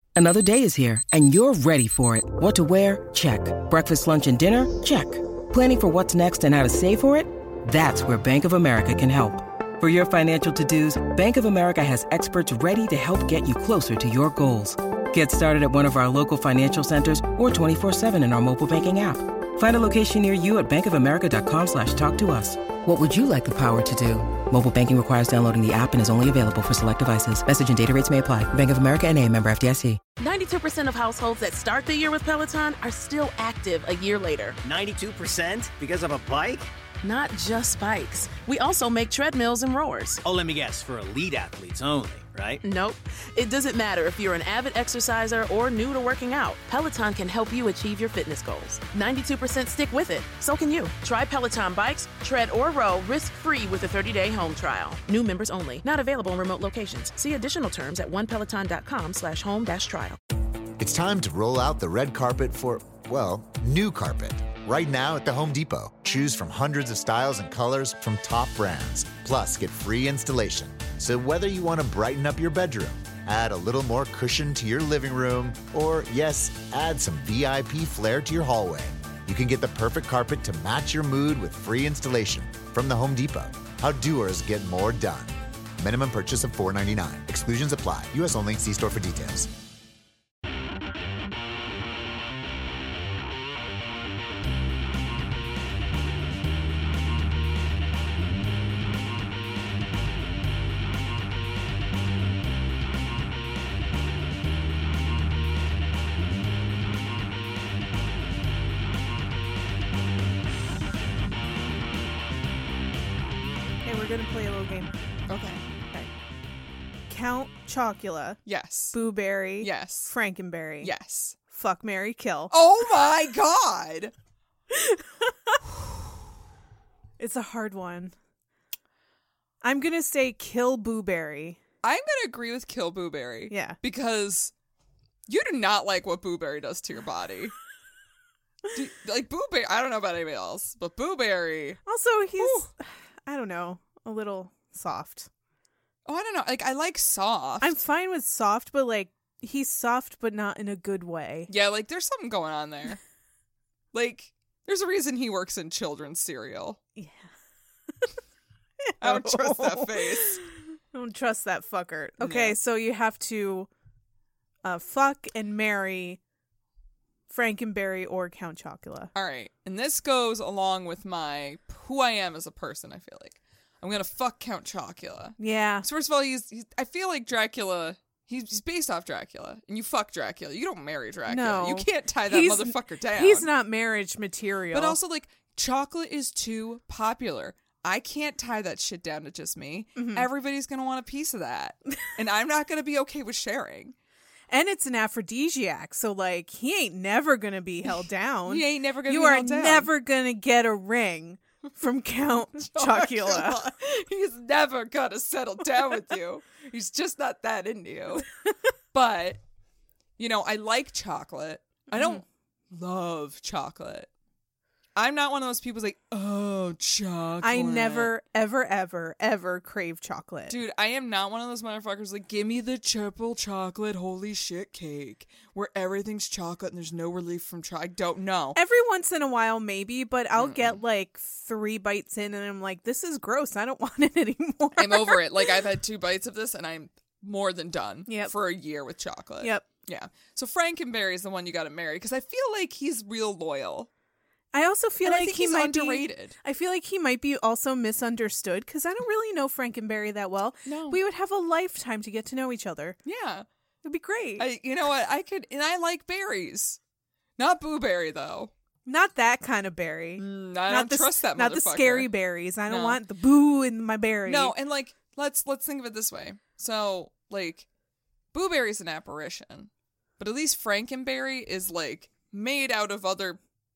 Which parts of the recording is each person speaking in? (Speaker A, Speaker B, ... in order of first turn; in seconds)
Speaker A: 0.1-30.0
Speaker B: 30.2-34.6, 37.0-40.2, 42.6-60.2
Speaker C: 34.6-36.7, 40.2-42.6
Speaker D: 60.8-89.5
Speaker E: 113.8-114.9, 117.1-118.4, 118.9-120.9, 121.5-122.5, 124.7-125.6, 127.2-128.1, 129.6-131.6, 133.5-133.8, 141.8-145.3, 147.6-151.5, 157.0-157.3, 158.8-163.7, 164.6-166.2, 167.3-169.1, 175.4-175.9, 181.3-185.0, 190.0-190.2, 194.5-203.6, 211.9-212.2, 217.4-220.6, 228.5-235.5, 238.1-238.3, 244.5-253.0, 253.8-254.4, 258.9-264.5
Speaker F: 115.3-115.6, 118.5-119.0, 119.6-120.1, 120.8-121.3, 122.5-124.1, 131.8-134.5, 135.3-137.5, 138.7-141.8, 142.4-142.7, 146.1-147.8, 151.5-153.0, 153.9-156.8, 159.0-160.4, 162.2-162.6, 169.1-183.5, 184.7-193.9, 198.4-199.9, 202.6-208.3, 208.9-209.4, 210.2-214.1, 214.9-218.1, 220.5-228.6, 230.3-230.8, 234.8-243.9, 245.0-246.4, 250.7-251.0, 253.0-253.4, 254.4-256.8, 257.4-258.5, 260.2-262.1, 262.7-263.0, 264.2-267.6, 268.3-273.4